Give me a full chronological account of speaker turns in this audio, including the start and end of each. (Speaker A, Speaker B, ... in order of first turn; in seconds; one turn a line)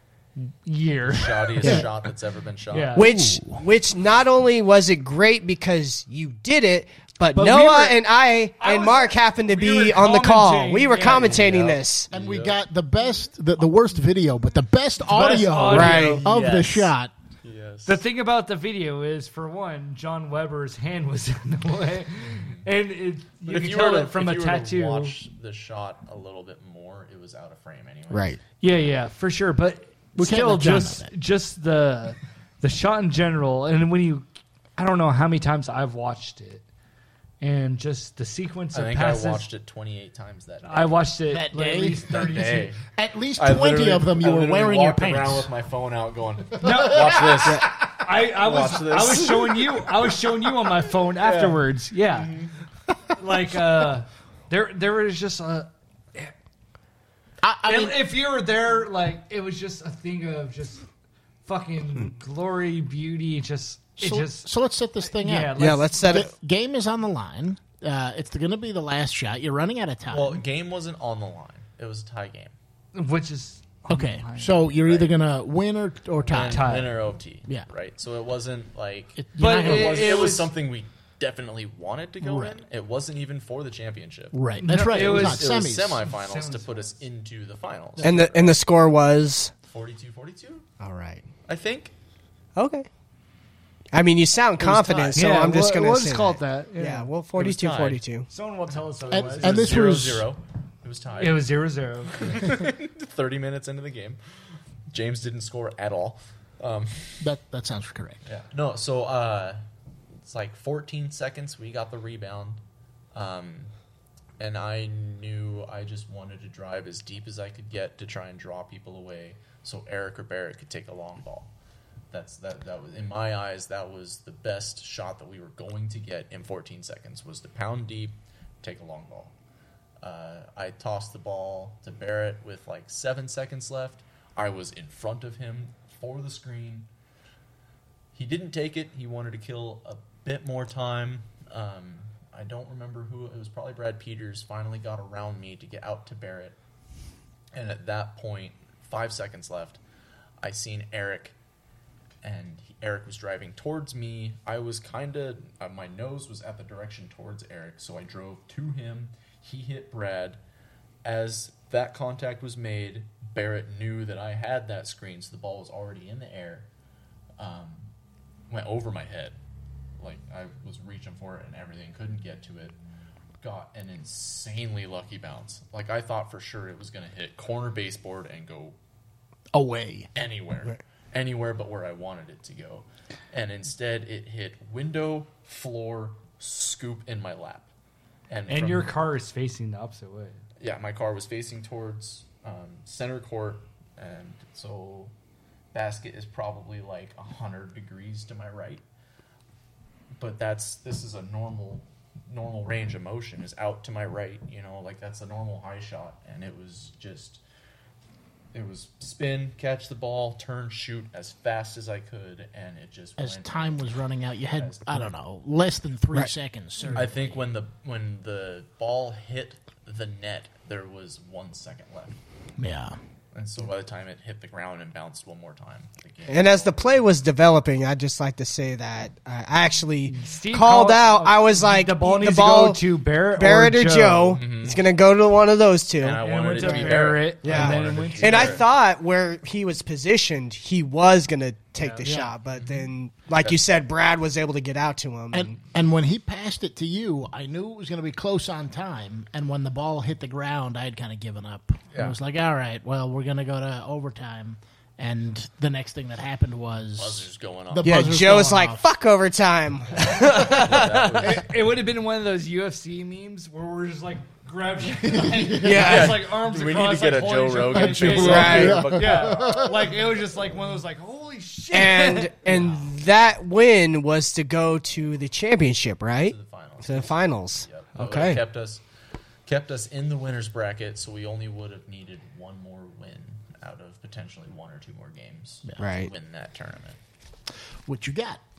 Speaker A: 0.4-1.8
Speaker B: 1.1-3.1
Speaker A: 2.7-3.1
Speaker C: 3.0-12.1
Speaker D: 3.0-3.6
Speaker A: 7.3-8.0
Speaker A: 8.6-11.6
Speaker B: 11.2-12.6
Speaker D: 12.1-17.1
Speaker A: 15.1-16.2
Speaker C: 15.7-16.2
Speaker B: 16.1-16.9
Speaker B: 17.4-18.0
Speaker A: 17.9-25.1
Speaker B: 22.3-22.6
Speaker B: 23.5-28.4
Speaker C: 28.1-28.4
Speaker A: 28.6-34.3
Speaker D: 30.2-31.1
Speaker A: 34.8-36.6
Speaker A: 37.4-39.5
Speaker B: 38.7-41.1
Speaker A: 40.6-42.7
Speaker D: 41.3-45.5
Speaker B: 42.1-42.8
Speaker B: 43.4-49.8
Speaker A: 46.6-52.4
Speaker D: 46.6-47.1
Speaker B: 51.2-52.5
Speaker A: 53.1-56.3
Speaker D: 57.4-58.0
Speaker A: 57.6-60.9
Speaker A: 61.5-64.5
Speaker D: 64.0-70.4
Speaker A: 65.1-66.2
Speaker C: 65.6-66.3
Speaker B: 70.1-72.5
Speaker A: 73.0-74.6
Speaker D: 73.9-76.9
Speaker B: 74.8-75.1
Speaker B: 76.3-88.6
Speaker A: 76.4-76.9
Speaker D: 79.2-80.3
Speaker A: 79.4-80.5
Speaker D: 82.2-82.6
Speaker D: 84.3-86.0
Speaker A: 84.6-86.9
Speaker C: 88.0-89.5
Speaker B: 89.7-90.7
Speaker C: 90.8-91.2
Speaker B: 91.5-91.9
Speaker C: 92.6-92.9
Speaker C: 93.9-98.3
Speaker B: 94.6-95.2
Speaker A: 95.1-97.1
Speaker B: 97.4-98.0
Speaker A: 98.3-99.8
Speaker D: 99.1-100.3
Speaker B: 99.1-101.6
Speaker A: 101.2-102.5
Speaker B: 102.1-104.2
Speaker B: 104.9-107.2
Speaker D: 107.2-108.2
Speaker B: 108.3-109.6
Speaker B: 110.3-112.6
Speaker B: 113.1-113.7
Speaker B: 114.4-121.5
Speaker B: 122.1-129.3
Speaker B: 130.0-136.9
Speaker B: 138.2-146.6
Speaker B: 147.5-149.8
Speaker B: 150.4-151.3
Speaker B: 152.2-160.4
Speaker B: 161.0-166.7
Speaker B: 167.4-167.9
Speaker B: 168.5-169.4
Speaker B: 170.0-172.8
Speaker B: 173.4-178.8
Speaker D: 179.5-180.1
Speaker B: 180.2-187.7
Speaker B: 188.3-188.9
Speaker A: 188.5-190.4
Speaker B: 190.6-195.1
Speaker B: 195.7-198.8
Speaker B: 200.2-207.4
Speaker B: 208.5-214.0
Speaker D: 213.2-217.4
Speaker B: 214.6-215.1
Speaker A: 216.8-217.1
Speaker B: 216.9-222.2
Speaker D: 222.6-223.0
Speaker B: 223.3-227.0
Speaker C: 226.3-245.6
Speaker A: 230.1-234.4
Speaker B: 234.3-234.8
Speaker B: 236.0-238.6
Speaker A: 236.2-238.6
Speaker A: 241.8-242.3
Speaker D: 245.3-258.9
Speaker B: 257.0-258.0
Speaker C: 257.8-261.3
Speaker B: 260.1-261.5
Speaker A: 261.2-272.6
Speaker D: 265.0-265.7
Speaker C: 265.6-266.2
Speaker B: 265.6-270.0
Speaker D: 267.7-269.7
Speaker C: 268.1-268.8
Speaker C: 271.7-278.4
Speaker B: 272.5-272.8
Speaker B: 276.3-278.8
Speaker B: 279.5-287.0
Speaker C: 285.8-286.1
Speaker D: 287.9-288.4